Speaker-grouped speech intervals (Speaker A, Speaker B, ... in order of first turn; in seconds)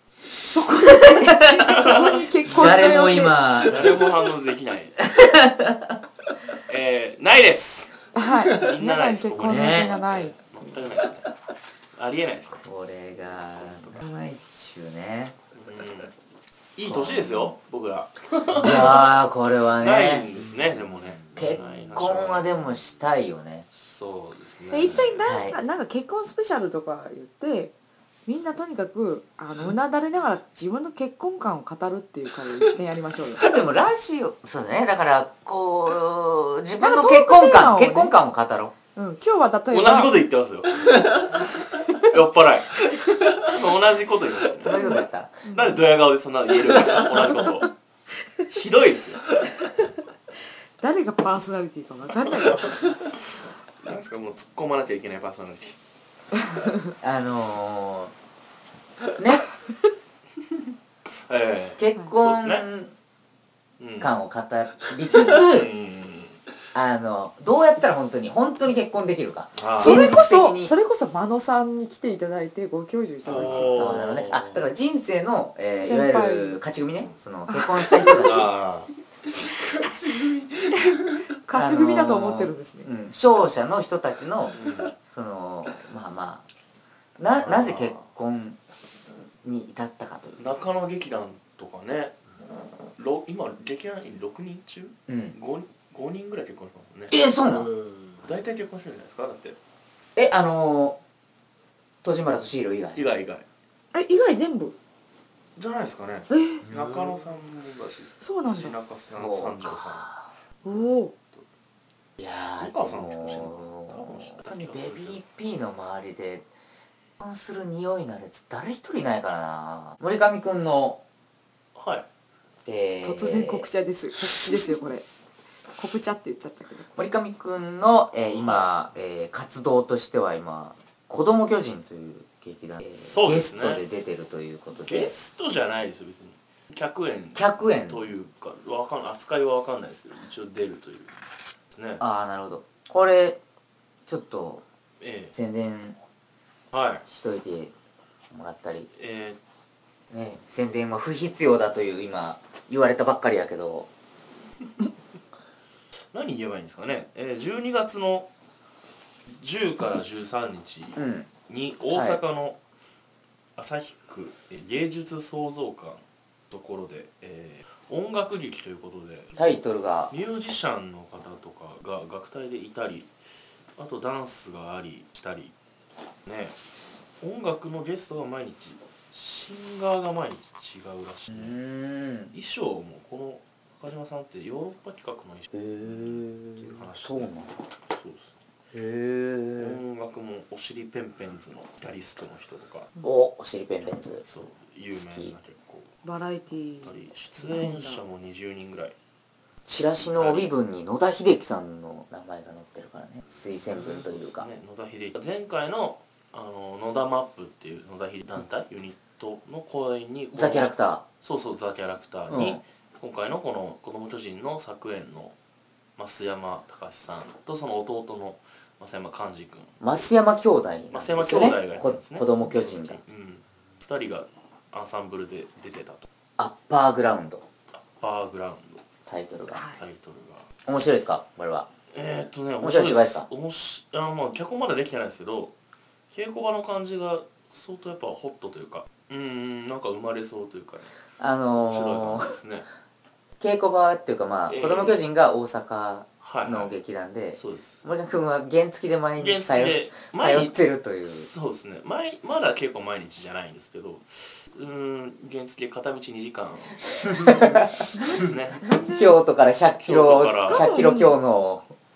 Speaker A: 0.4-3.5, 8.1-10.9, 24.7-27.8, 28.3-33.5, 36.8-38.1, 39.0-40.2, 45.5-45.9, 50.8-52.9, 69.8-73.9, 75.8-76.6, 77.5-78.5, 80.8-82.9, 103.9-104.8, 106.3-106.6, 108.2-108.8, 110.7-111.1, 123.0-125.1, 125.8-126.9, 196.0-198.0, 229.5-229.8, 257.9-259.2, 260.5-261.2
Speaker B: 1.1-4.1, 5.0-6.0, 9.4-9.9, 12.6-15.4, 16.9-17.5, 18.5-20.3, 21.4-23.7, 24.9-25.6, 33.4-38.7, 44.6-45.4, 57.0-58.1, 59.2-59.5, 61.8-62.9, 64.0-65.7, 66.7-70.7, 73.3-78.5, 81.5-84.6, 85.1-86.4, 87.2-88.6, 89.4-90.5, 95.1-95.4, 97.1-97.7, 100.2-101.0, 102.0-103.1, 109.1-110.3, 112.2-116.5, 117.2-121.0, 122.7-123.7, 127.0-135.1, 137.3-138.1, 142.0-143.4, 144.1-144.6, 145.3-146.0, 147.1-147.7, 148.3-148.9, 150.1-153.9, 161.0-161.3, 161.9-162.2, 169.3-170.1, 181.3-182.3, 185.5-187.6, 188.7-189.8, 193.0-194.2, 194.9-195.3, 199.7-204.5, 210.3-211.0, 212.3-212.6, 219.8-223.0, 226.4-227.4, 229.1-229.7, 230.7-231.7, 232.6-233.3, 241.2-242.3, 243.4-251.3, 257.3-257.6, 258.9-261.7
Speaker C: 1.7-2.2, 3.6-5.1, 6.7-11.3, 11.9-12.7, 13.5-14.0, 15.6-16.1, 16.8-19.1, 19.8-22.8, 23.8-25.2, 39.7-44.9, 45.5-47.7, 48.5-49.4, 52.5-52.9, 53.8-55.8, 61.2-62.7, 63.8-64.1, 65.1-66.4, 69.5-70.0, 73.2-74.6, 78.0-78.9, 84.5-84.9, 87.4-88.1, 90.4-92.2, 93.0-97.2, 98.2-99.6, 103.0-103.5, 105.6-110.2, 110.7-111.5, 112.6-115.2, 121.8-122.1, 128.3-128.7, 133.0-133.8, 134.8-141.2, 141.7-142.0, 145.0-145.3, 146.7-147.1, 149.0-149.4, 156.1-158.3, 159.3-162.6, 163.6-169.4, 170.1-173.1, 173.8-175.5, 176.3-176.6, 177.2-181.6, 182.3-187.4, 187.9-188.4, 189.6-192.9, 194.2-195.9, 196.8-198.9, 200.0-200.5, 203.6-215.3, 216.0-219.8, 220.9-226.1, 227.7-228.8, 229.6-230.5, 231.9-235.5, 236.1-240.9, 241.6-242.7, 244.5-245.0, 246.2-246.8, 247.3-247.8, 249.2-258.6, 259.8-260.7
Speaker D: 20.4-21.6, 79.3-81.2, 97.5-98.2, 106.7-107.0